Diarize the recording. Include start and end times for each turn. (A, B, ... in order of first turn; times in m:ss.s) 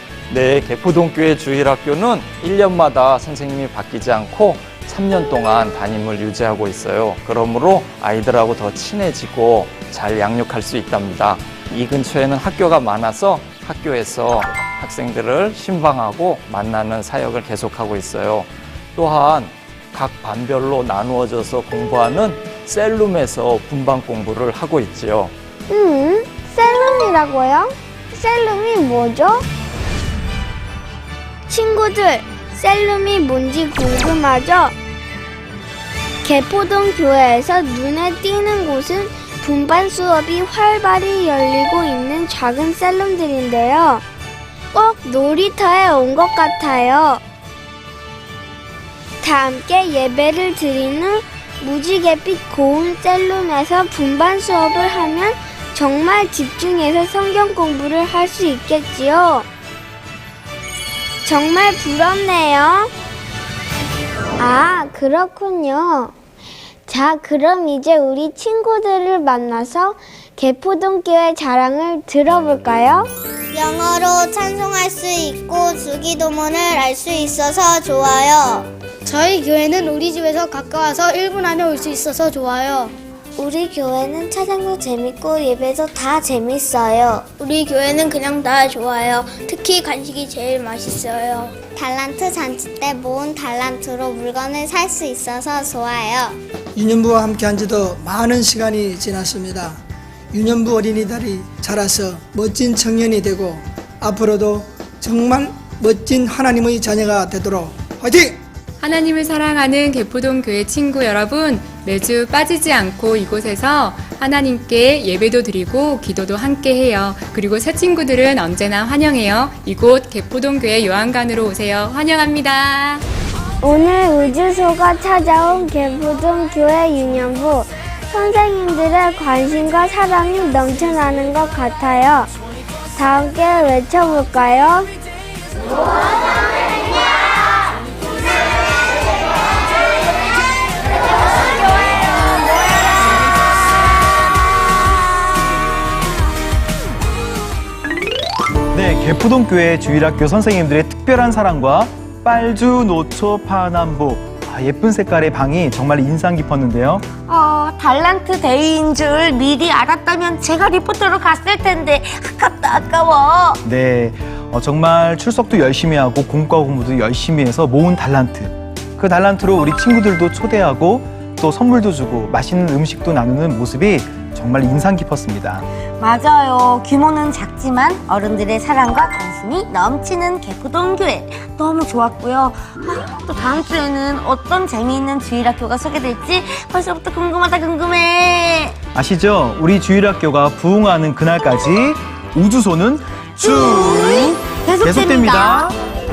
0:00.3-0:25.3 A
0:25.7-0:29.4 B
0:31.5-0:34.7 B
0:36.2-0:44.0 B
0:44.7-0:47.2 B
0:49.2-0:59.5 B
1:01.2-1:02.9 B
1:04.4-1:06.1 B
1:06.9-1:13.1 B
1:13.5-1:18.7 C
1:19.1-1:22.9 D
1:23.4-1:27.2 B
1:27.4-1:31.6 D
1:31.7-1:36.4 C
1:36.8-1:39.8 E
1:40.3-1:48.4 E
1:48.8-2:03.0 F
2:03.6-2:12.3 B
2:13.0-2:14.9 B
2:28.7-2:37.1 G
2:37.3-2:43.6 H
2:43.6-2:55.7 G
2:56.0-3:08.8 H
3:09.0-3:15.8 G
3:13.4-3:15.7 H